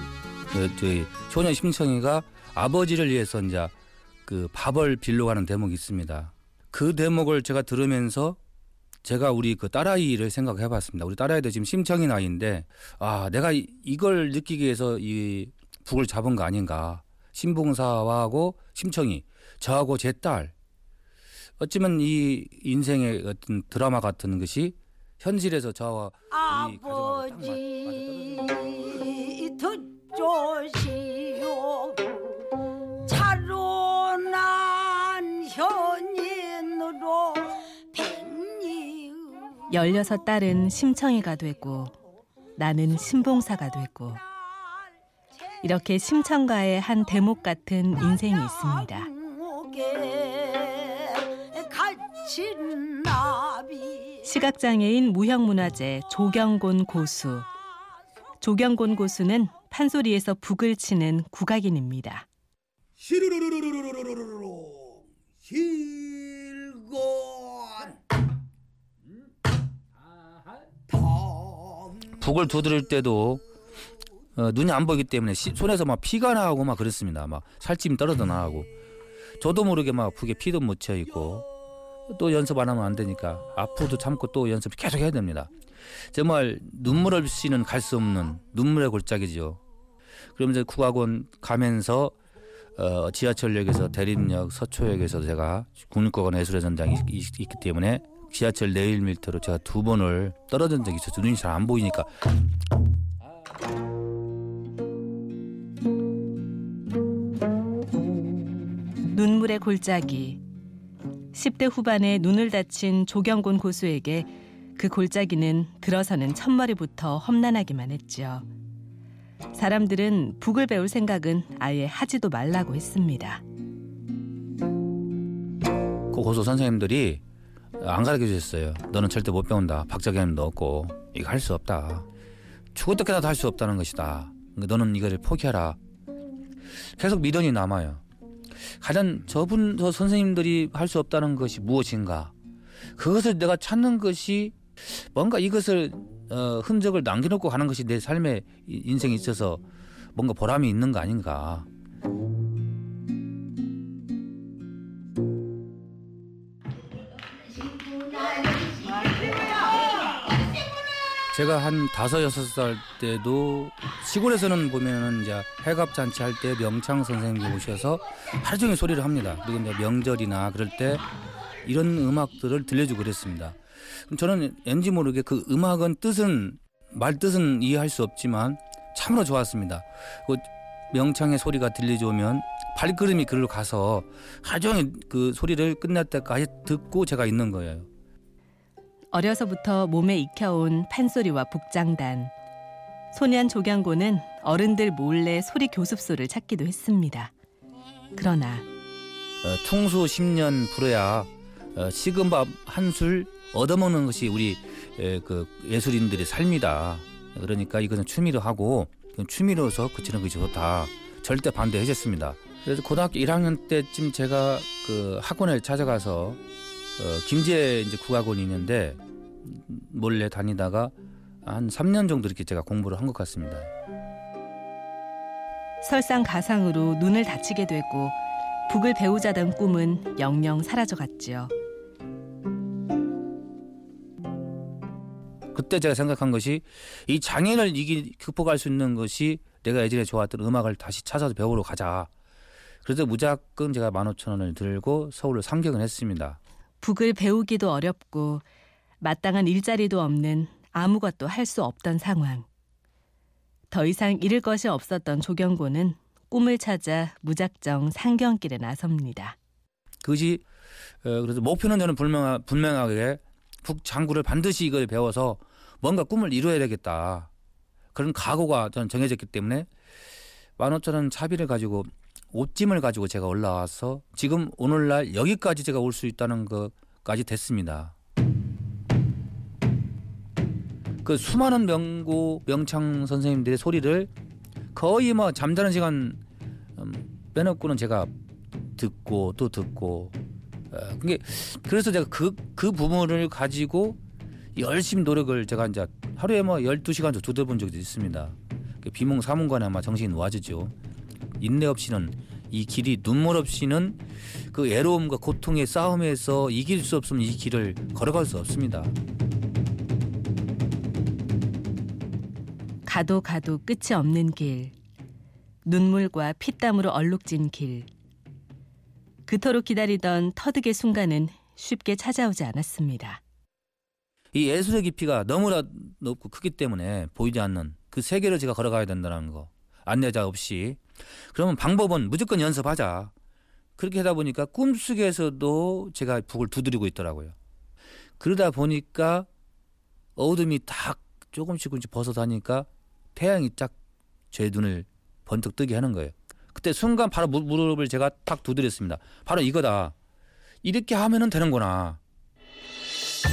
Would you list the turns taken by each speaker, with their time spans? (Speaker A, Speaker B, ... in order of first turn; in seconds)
Speaker A: 0.5-3.7, 4.3-8.4, 9.0-20.5, 21.6-28.6, 72.1-73.4, 74.4-78.7, 79.4-81.5, 82.1-85.5, 86.1-89.6, 90.4-92.2, 92.8-102.3, 126.1-127.2, 127.8-132.1, 132.8-135.8, 136.9-138.0, 138.8-142.3, 143.0-149.6, 150.2-151.7, 161.3-171.0, 171.6-173.6, 174.1-187.9, 199.4-216.4, 217.0-223.7, 235.5-242.1, 242.8-246.4, 260.0-260.4, 261.0-267.3, 267.9-269.7, 270.6-277.9, 281.0-284.1, 284.7-286.2, 286.8-288.1, 288.8-290.2, 290.7-294.0, 294.6-300.7, 301.4-304.0, 304.5-308.9, 324.3-333.1, 333.8-337.4, 338.2-339.3, 340.2-343.8, 344.3-349.9, 350.6-352.0
Speaker B: 28.6-32.0, 33.1-39.6, 49.2-54.1
Speaker C: 39.7-42.0, 42.6-44.2, 45.6-49.1, 54.2-57.5, 58.4-62.3, 109.0-110.4, 111.3-118.5, 119.5-123.4, 189.1-192.3, 193.1-197.3, 198.2-198.7, 225.8-231.5, 246.8-248.4, 249.0-252.5, 253.7-259.4, 312.9-314.7, 315.6-317.9, 319.3-323.2